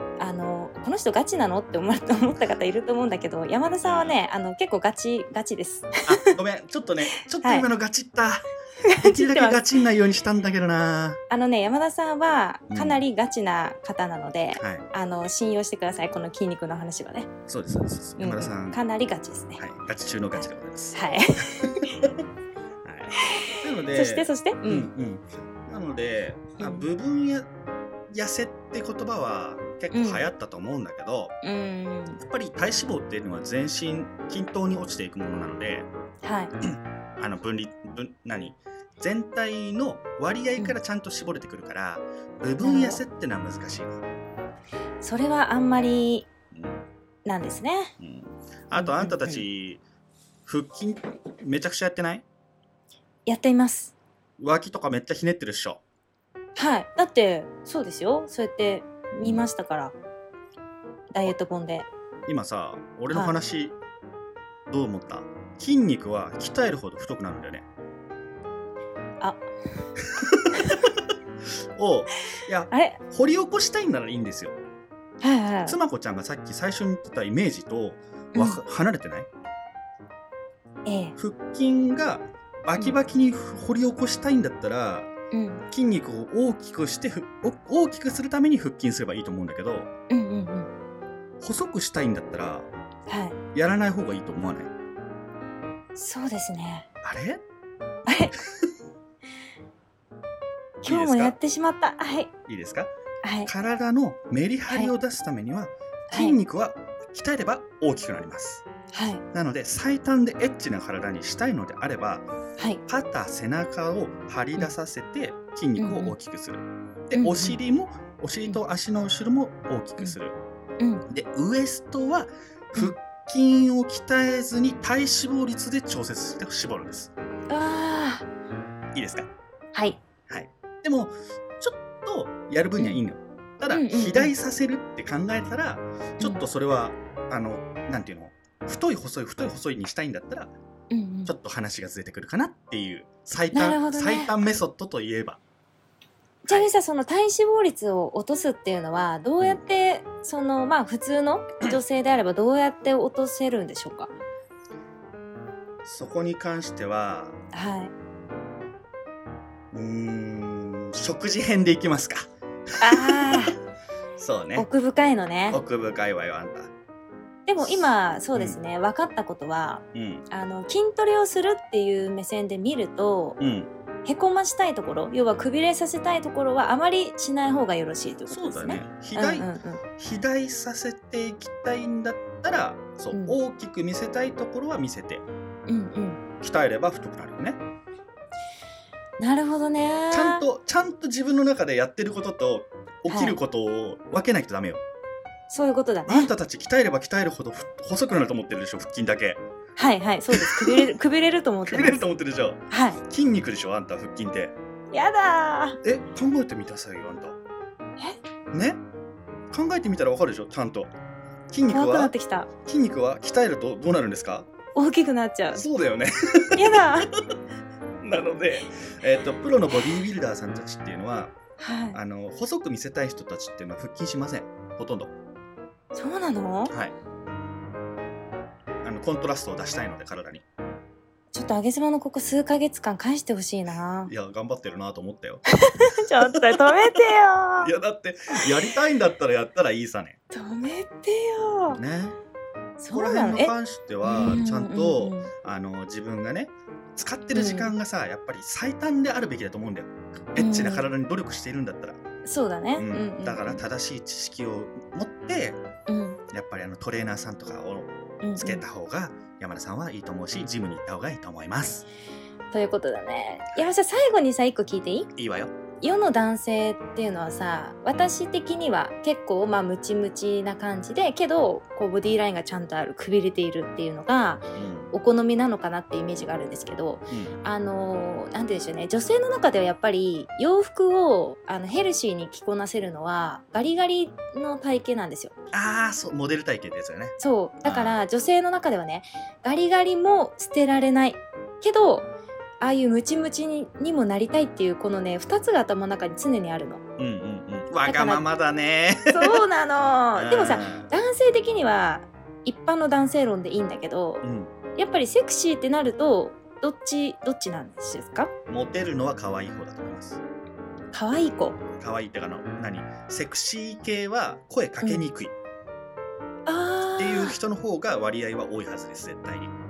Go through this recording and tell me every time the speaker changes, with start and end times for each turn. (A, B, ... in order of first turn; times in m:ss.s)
0:00.2-0:06.0 A
0:03.8-0:04.2 B
0:06.1-0:08.5 B
0:07.3-0:07.7 A
0:08.8-0:09.6 A
0:09.0-0:11.2 B
0:11.3-0:17.3 A
0:12.7-0:13.0 B
0:14.6-0:14.9 B
0:17.5-0:18.8 B
0:18.2-0:19.6 A
0:19.6-0:22.2 B
0:20.3-0:22.1 A
0:22.8-0:27.5 B
0:23.2-0:24.9 A
0:26.6-0:26.9 A
0:28.1-0:31.3 B
0:29.9-0:30.3 A
0:31.4-0:32.2 A
0:32.2-0:35.9 B
0:36.2-0:36.5 A
0:36.6-0:44.0 B
0:42.6-0:43.0 A
0:45.0-0:46.3 A
0:46.5-0:46.8 B
0:47.3-0:47.9 A
0:48.0-0:49.8 B
0:48.7-0:49.4 A
0:50.5-0:52.2 B
0:53.3-0:53.9 A
0:54.4-0:55.8 B
0:56.6-0:59.9 A
0:59.2-0:59.5 B
1:01.1-1:01.9 A
1:02.3-1:03.8 B
1:03.1-1:03.4 A
1:04.7-1:07.7 B
1:10.2-1:11.0 B
1:10.5-1:10.9 A
1:11.8-1:14.6 B
1:12.7-1:13.0 A
1:15.2-1:15.8 A
1:15.7-1:19.3 B
1:18.3-1:18.6 A
1:20.9-1:21.2 A
1:21.2-1:25.1 B
1:25.3-1:25.6 A
1:25.7-1:29.9 B
1:30.1-1:30.7 A
1:31.4-1:32.7 B
1:33.1-1:33.4 A
1:33.5-1:34.7 B
1:36.0-1:36.9 A
1:37.0-1:37.4 B
1:38.1-1:38.3 A
1:40.8-1:42.3 A
1:40.8-1:41.4 B
1:42.5-1:42.9 B
1:43.2-1:43.5 A
1:43.5-1:48.6 B
1:46.1-1:46.4 A
1:48.9-1:49.2 A
1:49.3-1:52.3 B
1:52.9-2:00.4 B
1:55.8-1:56.2 A
1:57.1-1:57.6 A
2:01.1-2:07.1 B
2:07.5-2:08.2 A
2:09.0-2:09.3 B
2:09.7-2:10.0 A
2:10.3-2:20.5 B
2:13.7-2:14.3 A
2:20.9-2:21.3 A
2:21.3-2:25.4 B
2:23.5-2:24.3 A
2:26.4-2:34.1 A
2:35.8-2:37.4 B
2:37.5-2:37.9 A
2:39.7-2:43.5 B
2:42.8-2:43.6 A
2:44.2-2:44.7 B
2:44.6-2:45.6 A
2:45.5-2:46.7 B
2:47.5-2:53.4 A
2:48.3-2:48.6 B
2:49.9-2:50.2 B
2:53.4-2:53.7 B
2:54.0-2:59.8 A
2:58.3-2:59.5 B
3:00.0-3:05.2 B
3:03.1-3:03.4 A
3:05.7-3:06.2 A
3:06.4-3:07.6 B
3:09.2-3:10.4 A
3:10.1-3:14.8 B
3:13.1-3:13.4 A
3:15.5-3:16.3 A
3:16.1-3:19.4 B
3:19.8-3:22.0 A
3:20.3-3:20.9 B
3:21.7-3:24.6 B
3:22.7-3:23.0 A
3:24.9-3:25.8 A
3:25.8-3:27.4 B
3:28.5-3:28.8 B
3:29.5-3:30.9 B
3:31.5-3:32.1 B
3:31.7-3:32.5 A
3:32.7-3:34.5 B
3:34.8-3:35.6 A
3:35.5-3:36.9 B
3:36.6-3:37.1 A
3:38.0-3:41.3 B
3:41.6-3:42.0 A
3:41.9-3:45.1 B
3:45.9-3:46.7 A
3:48.8-3:50.4 B
3:51.3-3:54.1 A
3:54.1-3:55.4 B
3:55.6-3:57.7 A
3:57.6-4:00.2 B
4:00.3-4:01.8 A
4:01.7-4:02.2 B
4:02.8-4:05.3 A
4:02.9-4:12.0 B
4:07.3-4:07.7 A
4:10.4-4:10.8 A
4:12.3-4:13.6 A
4:12.8-4:15.6 B
4:15.9-4:16.2 A
4:16.3-4:21.9 B
4:18.2-4:18.6 A
4:22.5-4:25.1 A
4:25.2-4:25.6 B
4:25.8-4:45.3 A
4:34.6-4:34.9 B
4:37.1-4:37.4 B
4:45.5-4:48.0 B
4:47.2-4:52.1 A
4:52.6-4:56.8 A
4:57.0-4:59.4 B
4:57.9-4:58.2 A
4:59.1-5:04.2 A
5:00.2-5:00.9 B
5:04.2-5:04.5 B
5:04.8-5:08.3 A
5:08.5-5:10.2 B
5:10.9-5:11.6 A
5:11.8-5:15.4 B
5:14.8-5:15.1 A
5:16.5-5:17.4 A
5:17.0-5:19.5 B